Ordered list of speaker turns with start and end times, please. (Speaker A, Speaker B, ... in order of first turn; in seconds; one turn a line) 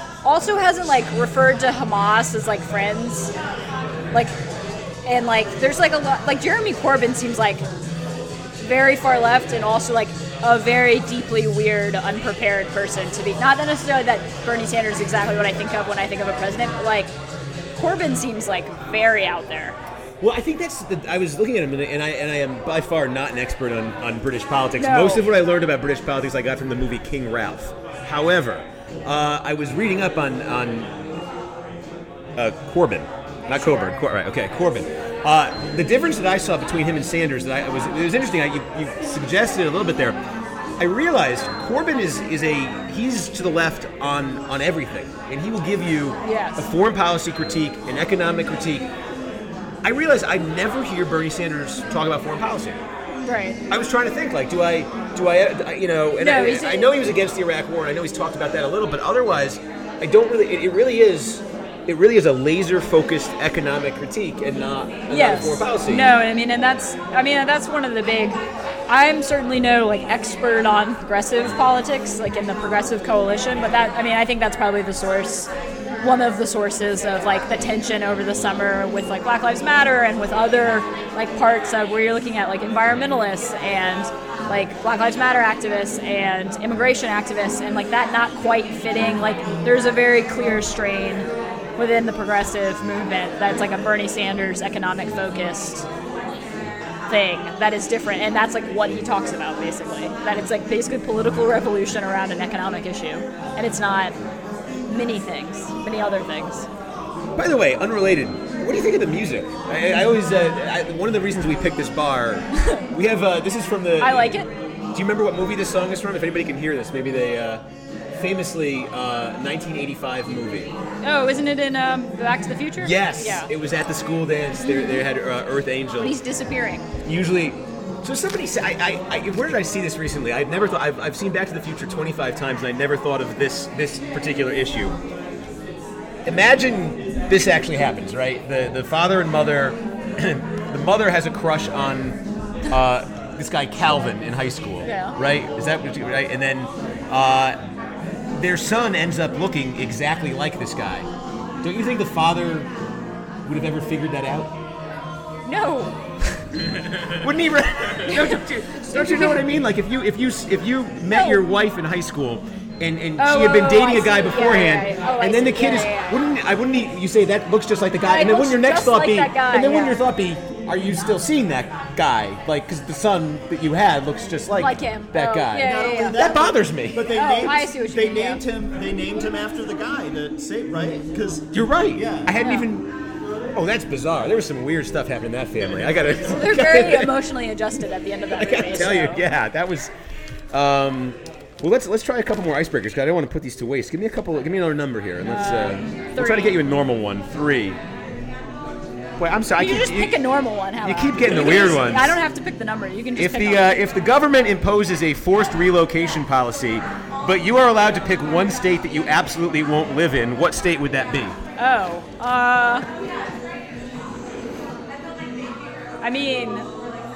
Speaker A: 0.2-3.3
Speaker A: 5.0-7.6
Speaker A: 8.6-17.1
Speaker A: 17.8-19.8
Speaker B: 20.2-30.9
Speaker A: 24.8-25.2
Speaker B: 32.4-40.2
Speaker B: 40.8-48.9
Speaker A: 46.2-46.7
Speaker B: 49.8-52.8
Speaker A: 53.2-53.6
Speaker B: 53.7-66.1
Speaker A: 56.2-56.9
Speaker A: 65.1-75.5
Speaker A: 76.0-95.9
Speaker A: 97.1-104.1
Speaker A: 104.9-106.7
Speaker B: 107.3-120.7
Speaker A: 112.5-112.8
Speaker A: 114.0-114.5
Speaker A: 121.0-123.5
Speaker B: 122.8-126.2
Speaker A: 124.6-125.0
Speaker A: 126.0-126.8
Speaker B: 127.0-134.9
Speaker B: 136.2-147.6
Speaker A: 144.8-145.2
Speaker B: 148.3-151.1
Speaker B: 151.6-152.7
Speaker B: 153.4-154.5
Speaker A: 155.4-156.4
Speaker B: 157.1-177.1
Speaker A: 158.1-159.4
Speaker A: 161.1-161.4
Speaker A: 163.2-166.2
Speaker A: 168.0-170.0
Speaker A: 174.6-176.2
Speaker C: 175.6-182.3
Speaker A: 177.1-178.4
Speaker B: 181.5-182.9
Speaker A: 182.4-182.7
Speaker B: 183.5-187.1
Speaker A: 186.2-189.2
Speaker B: 188.3-189.9
Speaker B: 190.5-197.8
Speaker A: 195.2-196.6
Speaker B: 199.2-200.2
Speaker A: 199.6-203.7
Speaker B: 200.8-202.2
Speaker B: 203.1-211.3
Speaker A: 211.6-212.8
Speaker A: 216.0-216.7